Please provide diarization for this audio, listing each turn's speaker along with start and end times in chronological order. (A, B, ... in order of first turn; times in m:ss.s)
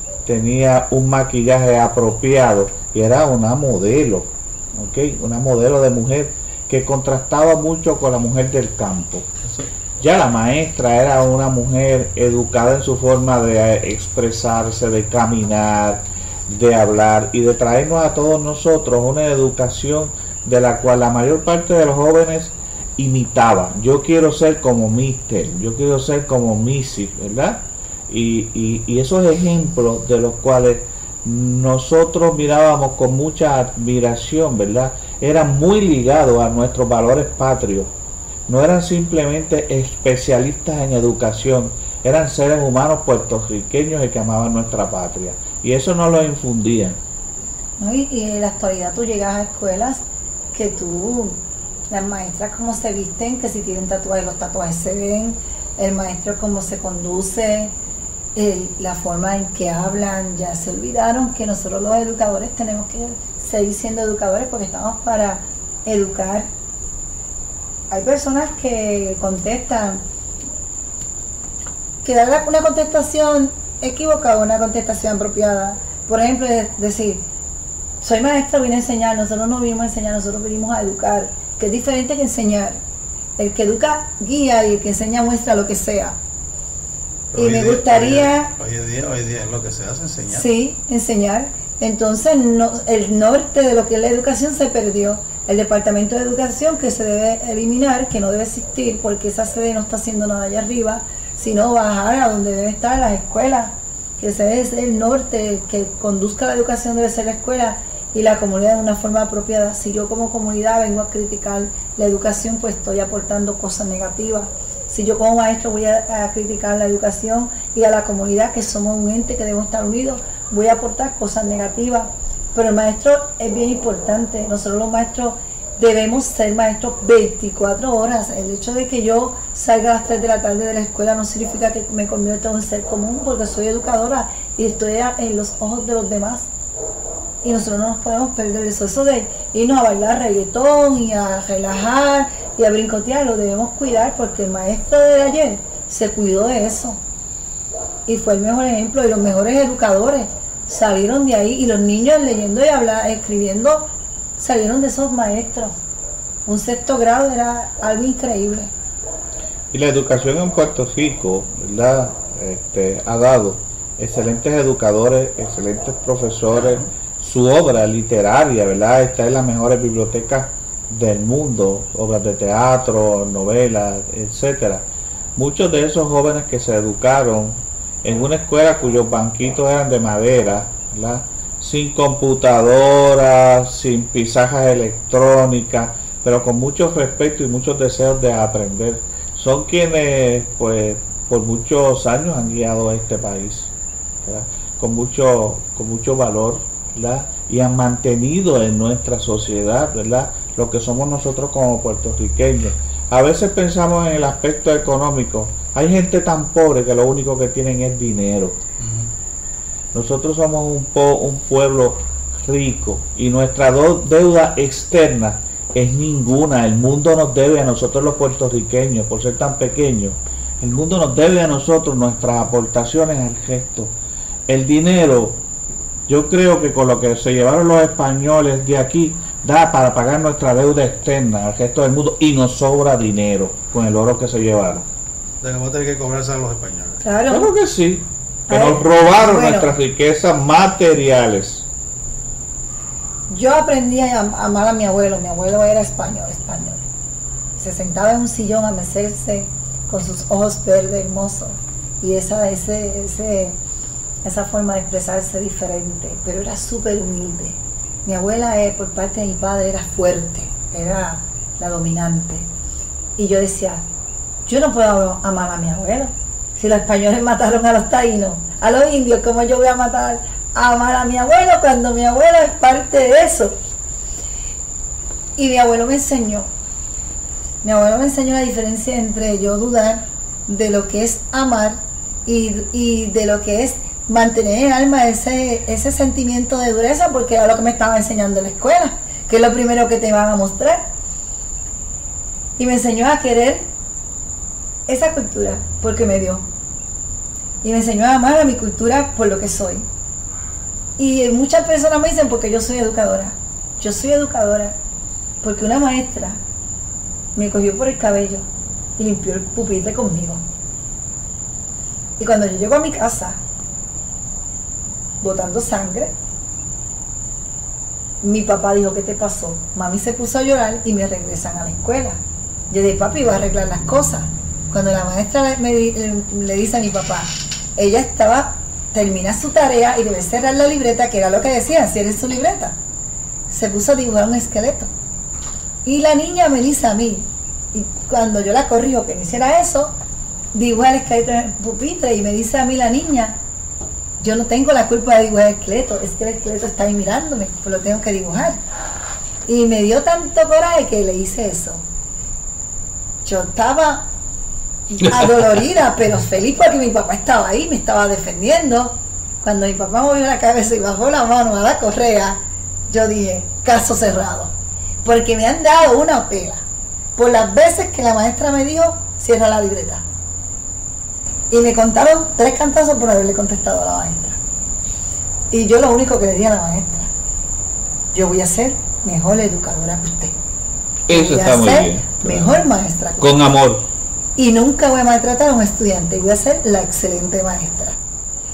0:00.2-0:09.3 A
0:10.0-0:37.9 A
0:38.5-0:47.0 A
0:47.8-0:50.0 B
0:50.5-0:51.4 B
0:51.9-0:57.7 B
0:58.3-1:06.5 B
1:07.9-1:10.0 B
1:12.0-1:17.2 B
1:18.0-1:22.8 B
1:23.4-1:26.2 B
1:27.3-1:30.5 C
1:27.3-1:28.5 B
1:30.3-2:16.5 B
2:17.4-2:27.0 B
2:28.1-2:35.7 B
2:36.4-2:38.7 B
2:39.7-3:13.7 A
3:14.2-3:28.6 A
3:28.8-3:29.1 C
3:29.9-3:43.9 A
3:44.5-3:45.4 A
3:46.1-3:54.9 A
3:55.4-3:57.0 C
3:57.0-3:57.5 B
3:57.3-4:01.6 A
3:58.5-3:59.7 B
4:03.3-4:06.8 B
4:07.6-4:13.6 B
4:14.2-4:22.5 B
4:23.2-4:23.8 B
4:24.4-4:33.6 B
4:35.4-4:36.5 B
4:37.6-4:50.9 B
4:52.6-4:53.6 B
4:54.9-4:56.4 B
4:57.6-4:59.9 B
5:01.0-5:04.8 B
5:05.4-5:06.4 B
5:07.4-5:08.4 B
5:09.0-5:10.4 B
5:12.2-5:13.4 B
5:15.2-5:16.1 B
5:18.2-5:22.2 B
5:22.7-5:32.8 B
5:33.5-5:34.9 B
5:35.8-5:39.9 B
5:40.5-5:43.4 B
5:44.2-5:48.6 B
5:49.4-5:51.8 B
5:53.2-5:54.1 B
5:54.9-6:06.6 B
6:07.2-6:10.0 B
6:11.5-6:14.4 B
6:15.5-6:17.1 B
6:18.1-6:20.3 B
6:21.1-6:22.6 A
6:21.1-6:23.5 B
6:23.2-6:23.8 A
6:24.4-6:28.0 B